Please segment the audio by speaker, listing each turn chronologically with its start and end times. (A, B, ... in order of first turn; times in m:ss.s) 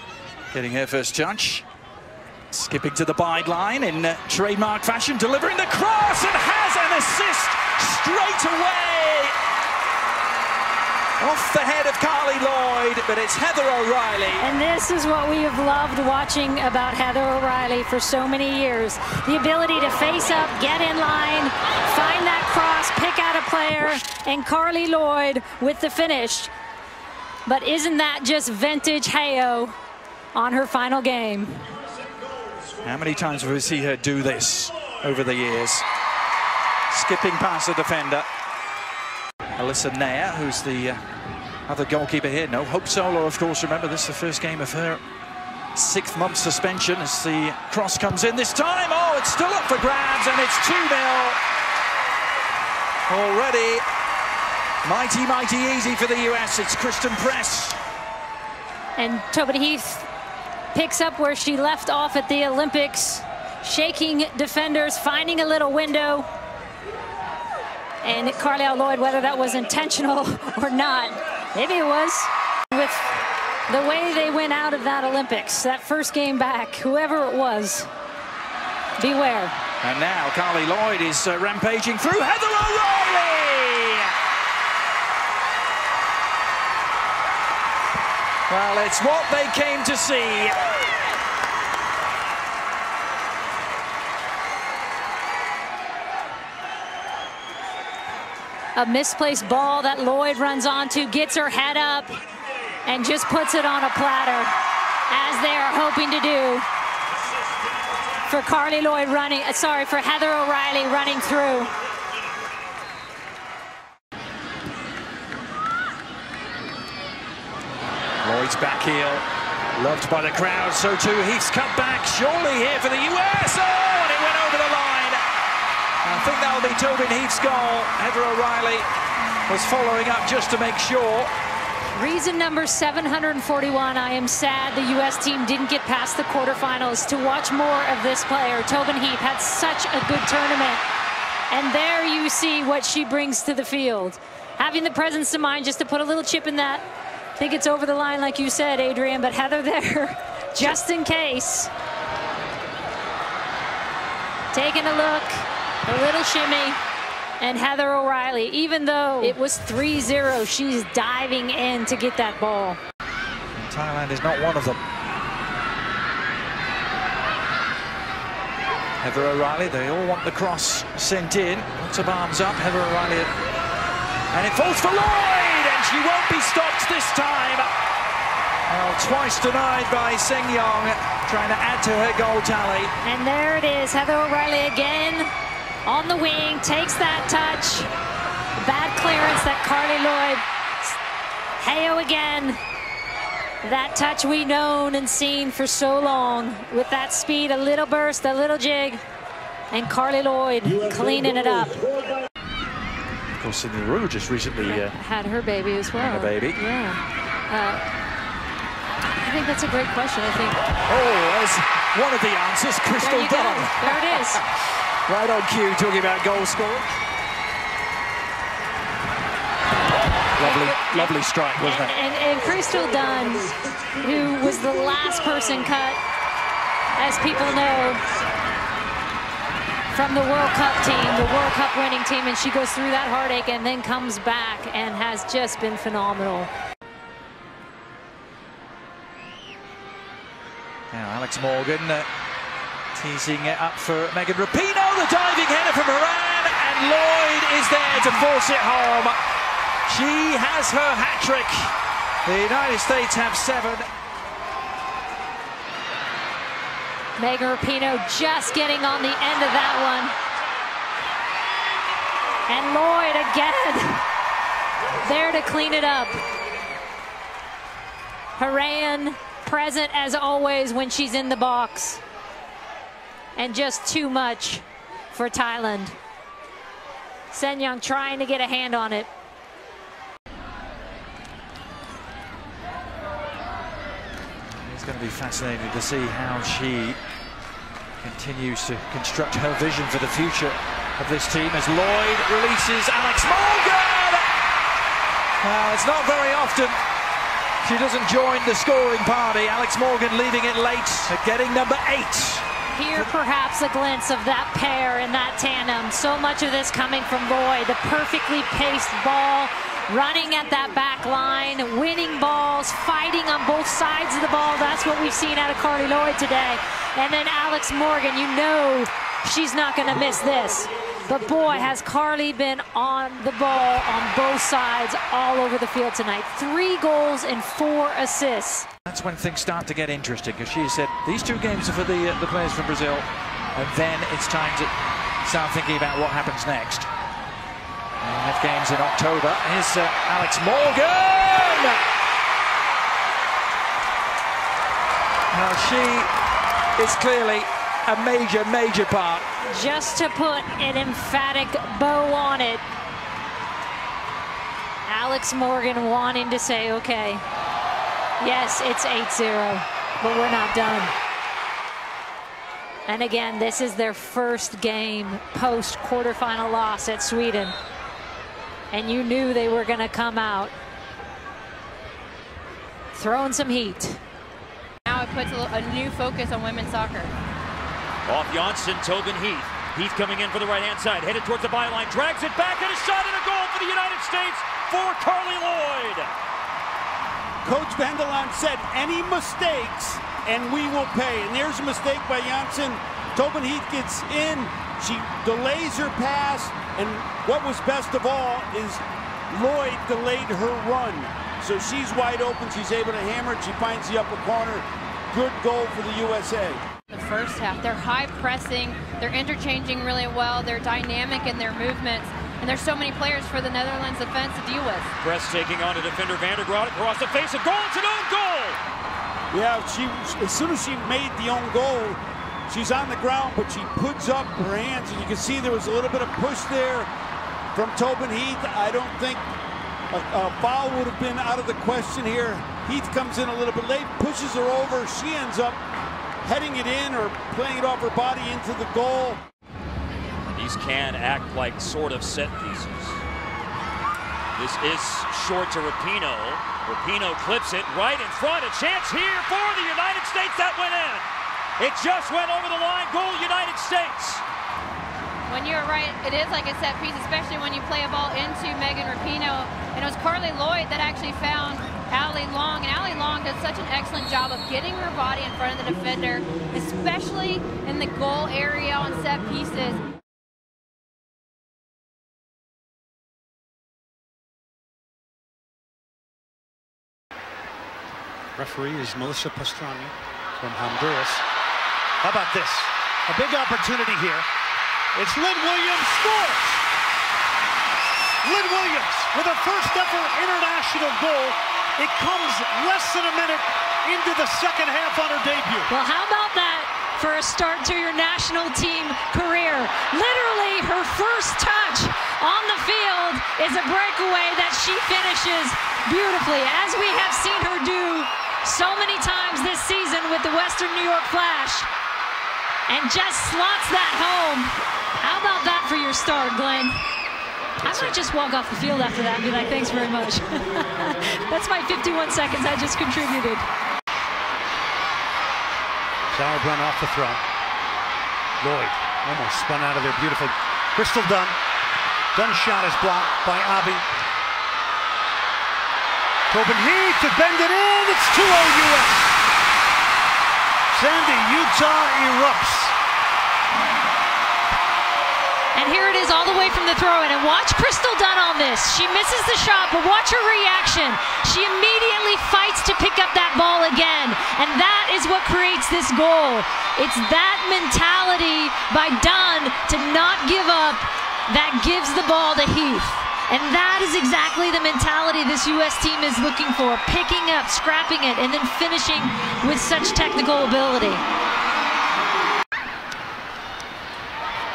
0:00.5-0:01.6 A
0:02.5-0:09.4 A
0:11.2-0:14.5 A
0:14.4-0:26.5 B
0:27.5-0:29.8 B
0:30.3-0:31.6 B
0:32.8-0:35.9 A
0:36.9-0:38.3 A
0:39.6-0:41.0 A
0:41.7-0:45.0 A
0:45.8-0:51.4 A
0:53.1-0:53.8 A
0:54.8-0:57.8 A
0:59.0-1:00.1 B
1:00.7-1:06.3 B
1:08.0-1:13.2 B
1:13.7-1:17.9 B
1:19.0-1:19.5 B
1:19.8-1:24.1 A
1:28.5-1:30.6 A
1:38.8-1:42.1 B
1:42.9-1:44.5 B
1:45.1-1:46.7 B
1:48.3-1:51.7 B
1:58.2-2:05.2 A
2:06.0-2:08.9 A
2:09.5-2:11.3 A
2:11.9-2:20.8 B
2:21.5-2:26.8 B
2:27.4-2:31.7 B
2:34.5-2:36.8 B
2:37.4-2:42.8 B
2:43.5-2:44.8 A
2:49.0-2:53.3 A
2:54.3-2:57.7 A
2:58.7-3:02.9 A
3:03.0-3:05.3 B
3:05.9-3:07.9 B
3:08.6-3:11.0 B
3:11.6-3:12.6 B
3:13.6-3:19.0 B
3:19.7-3:21.8 B
3:23.4-3:24.9 A
3:24.6-3:27.0 B
3:26.0-3:26.6 A
3:27.5-3:27.8 B
3:29.1-3:30.6 B
3:30.9-3:34.5 A
3:33.0-3:34.4 B
3:35.1-3:37.0 A
3:40.4-3:41.9 A
3:40.4-3:46.0 B
3:47.0-3:48.0 B
3:49.9-3:56.5 B
4:00.9-4:02.1 A
4:02.9-4:09.2 A
4:09.9-4:11.7 A
4:12.2-4:13.9 A
4:17.2-4:20.1 B
4:22.5-4:24.0 B
4:25.0-4:26.2 B
4:28.4-4:32.0 B
4:33.4-4:36.0 B
4:37.3-4:39.1 B
4:44.6-4:47.0 A
4:48.0-4:54.3 A
4:55.4-4:56.8 A
4:57.6-5:02.4 A
5:02.7-5:28.7 B
5:28.9-5:34.7 A
5:35.2-5:36.9 A
5:38.0-5:41.8 A
5:45.3-5:46.1 A
5:46.8-5:49.3 A
5:49.5-5:52.6 B
5:54.9-5:57.2 B
5:58.2-6:00.9 B
6:02.9-6:07.6 B
6:08.7-6:10.5 B
6:12.9-6:14.0 B
6:14.9-6:17.1 C
6:18.1-6:26.1 D
6:27.4-6:46.6 E
6:46.9-6:54.9 C
6:55.0-6:58.6 D
6:59.3-7:06.9 E
7:07.6-7:09.2 E
7:09.9-7:15.6 E
7:16.2-7:19.2 E
7:20.3-7:23.0 D
7:24.4-7:31.1 D
7:31.6-7:34.2 D
7:35.3-7:49.8 C
7:58.4-8:01.2 F
8:02.0-8:04.3 F
8:04.9-8:06.6 F
8:08.2-8:15.7 F
8:15.7-8:31.7 B
8:32.7-8:36.8 B
8:37.6-8:43.5 B
8:37.6-8:38.0 F
8:46.1-8:47.2 F
8:48.4-8:51.4 F
8:52.1-8:53.9 F
8:56.3-8:59.2 F
9:00.7-9:02.8 F
9:05.6-9:31.0 B